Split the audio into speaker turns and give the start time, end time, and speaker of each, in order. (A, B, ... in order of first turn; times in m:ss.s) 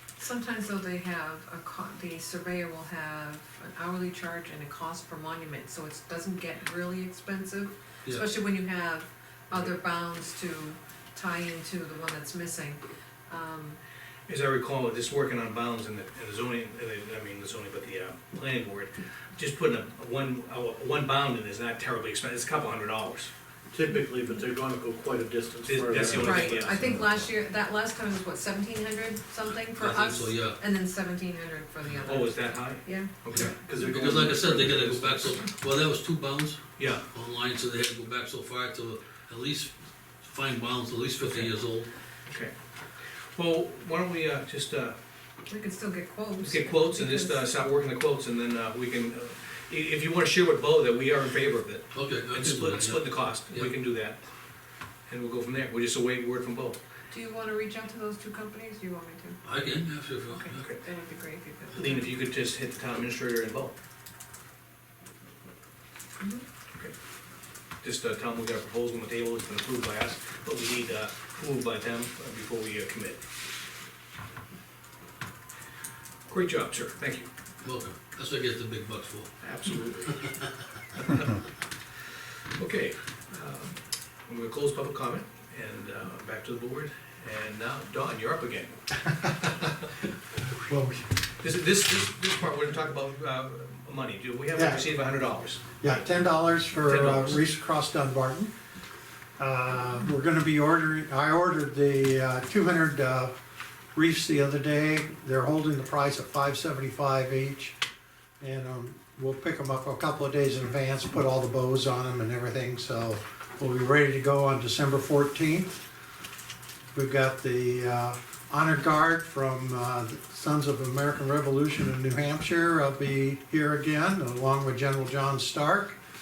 0:00.2-0:13.8 A
0:14.3-0:23.3 B
0:23.7-0:27.0 C
0:25.6-0:26.9 B
0:26.1-0:33.5 A
0:29.7-0:30.6 D
0:32.0-0:33.6 B
0:33.4-0:35.4 C
0:33.7-0:41.9 D
0:36.8-0:37.0 B
0:41.2-0:41.5 B
0:42.3-0:42.5 B
0:43.3-0:45.0 B
0:45.5-0:47.4 A
0:46.4-0:54.2 B
0:51.9-0:53.7 D
0:55.1-0:56.8 B
0:57.1-0:59.4 A
0:59.4-1:00.7 D
1:00.2-1:02.1 A
1:00.6-1:00.8 B
1:01.7-1:03.7 B
1:07.8-1:13.2 B
1:16.3-1:17.3 B
1:17.6-1:19.3 D
1:19.4-1:20.3 B
1:21.0-1:21.4 B
1:22.6-1:29.7 B
1:30.7-1:31.0 E
1:31.4-1:36.0 B
1:34.5-1:34.8 E
1:35.8-1:38.5 E
1:36.8-1:37.4 B
1:39.4-1:43.3 E
1:43.9-1:47.7 E
1:48.4-1:55.8 E
1:56.9-2:06.0 E